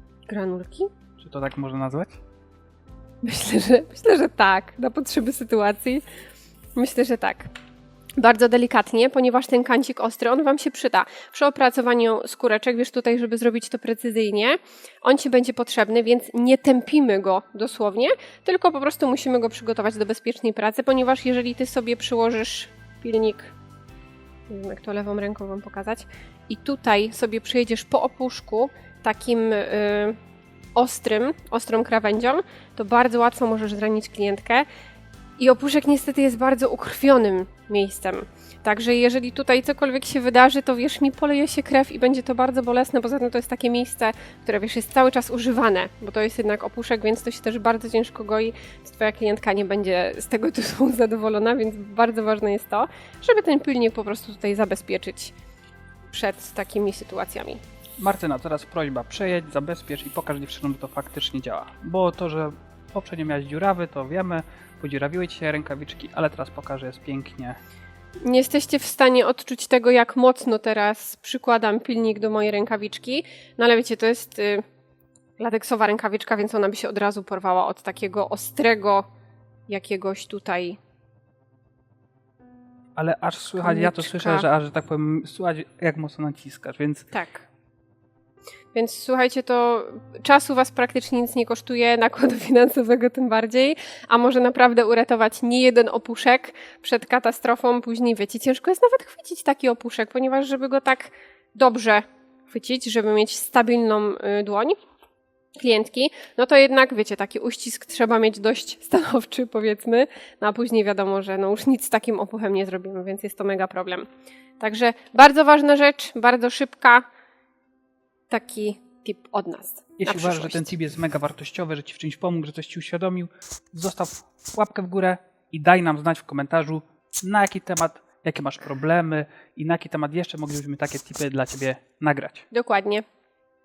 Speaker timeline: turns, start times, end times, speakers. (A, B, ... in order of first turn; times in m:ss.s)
0:00.3-0:00.9 A
0:01.2-0:02.2 B
0:03.2-0:06.0 A
0:06.8-0:07.5 A
0:08.2-0:23.5 A
0:24.5-0:30.2 A
0:30.8-0:34.7 A
0:35.4-0:55.3 A
0:56.1-0:57.6 A
0:58.0-1:07.6 B
1:08.2-1:14.6 A
1:15.4-1:19.1 A
1:19.7-1:20.8 A
1:23.0-1:27.1 B
1:23.6-1:24.5 A
1:27.1-1:27.5 A
1:28.7-1:44.8 A
1:45.6-1:54.1 A
1:54.6-1:57.1 A
1:58.3-2:00.7 A
2:00.0-2:12.5 B
2:12.5-2:13.0 A